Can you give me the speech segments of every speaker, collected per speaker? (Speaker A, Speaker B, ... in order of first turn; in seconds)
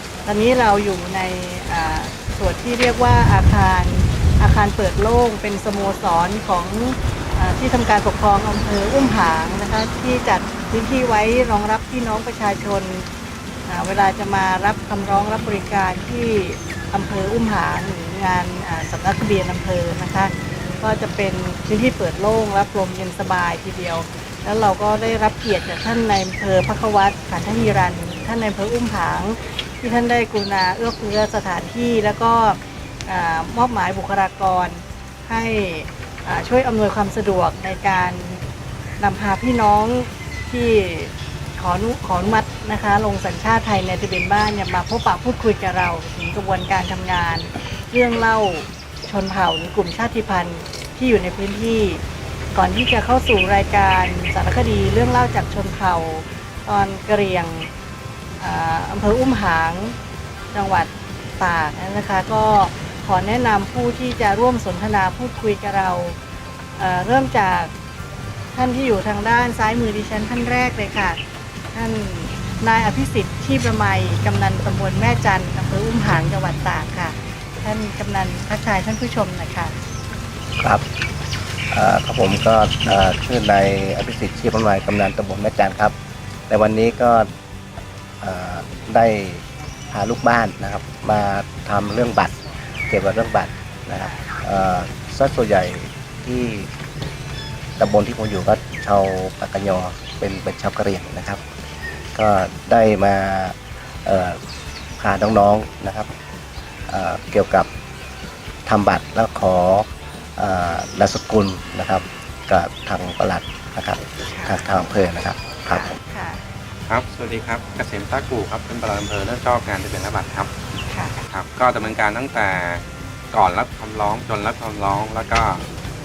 Speaker A: 0.2-13.1, 13.7-38.4, 39.0-52.0, 52.5-57.7, 58.4-60.0, 60.5-66.2, 66.8-67.7, 68.5-71.2, 71.7-79.7, 93.9-94.3, 114.3-114.8, 115.7-116.4, 120.9-121.2
Speaker B: 81.7-85.9, 86.5-87.3, 88.2-96.7, 97.8-101.4, 102.1-104.4, 105.0-106.1, 106.9-107.7, 108.7-115.9
Speaker C: 116.9-120.5, 121.3-125.7